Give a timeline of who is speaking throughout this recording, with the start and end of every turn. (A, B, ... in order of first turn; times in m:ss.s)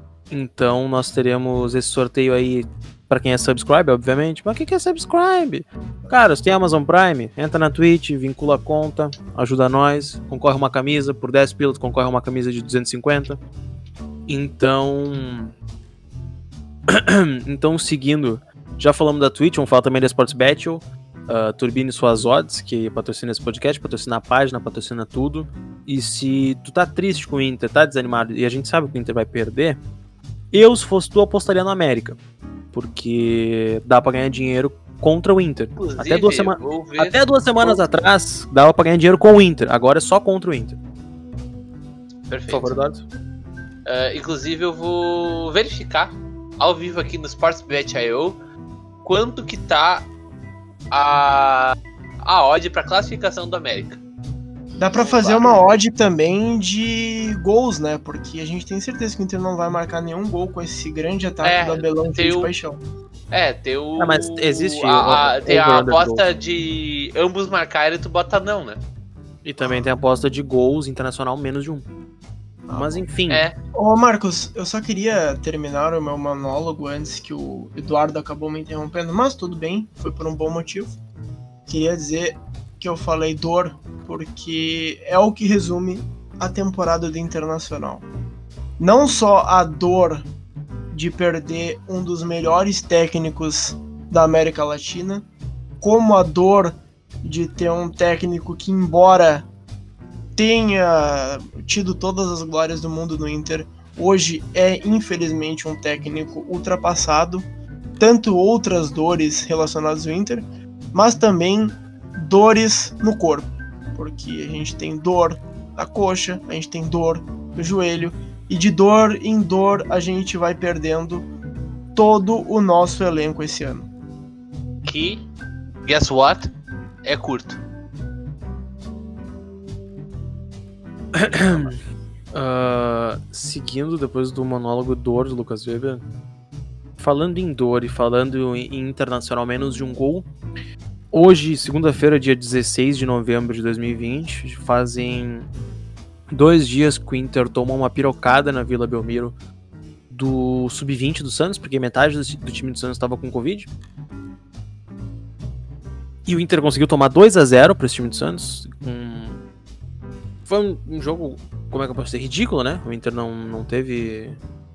0:00.3-0:13.4 A
0:14.3-0:15.5 A
0:16.9-0:29.8 A
0:30.5-0:32.2 A
0:32.7-0:40.8 A
0:35.8-0:38.0 B
0:42.3-0:42.7 B
0:42.5-0:43.0 A
0:43.9-0:48.4 B
0:49.0-0:50.1 B
0:50.9-0:54.0 B
0:54.8-1:02.8 C
0:55.0-0:55.7 B
1:01.4-1:02.5 B
1:03.3-1:08.8 B
1:04.0-1:06.3 A
1:09.4-1:11.9 A
1:12.7-1:13.1 C
1:12.7-1:13.4 A
1:13.3-1:13.5 B
1:13.7-1:21.0 C
1:21.7-1:28.1 C
1:28.8-1:30.3 C
1:30.9-1:35.3 C
1:35.8-1:39.5 C
1:40.4-1:47.5 C
1:48.0-2:01.3 C
2:02.0-2:03.9 C
2:04.8-2:05.3 B
2:05.8-2:06.5 B
2:07.0-2:07.6 B
2:11.1-2:11.8 A
2:11.4-2:11.7 B
2:12.3-2:16.0 A
2:17.0-2:20.3 A
2:21.1-2:25.5 A
2:26.3-2:29.3 A
2:30.1-2:33.7 A
2:36.2-2:39.4 A
2:40.4-2:44.4 A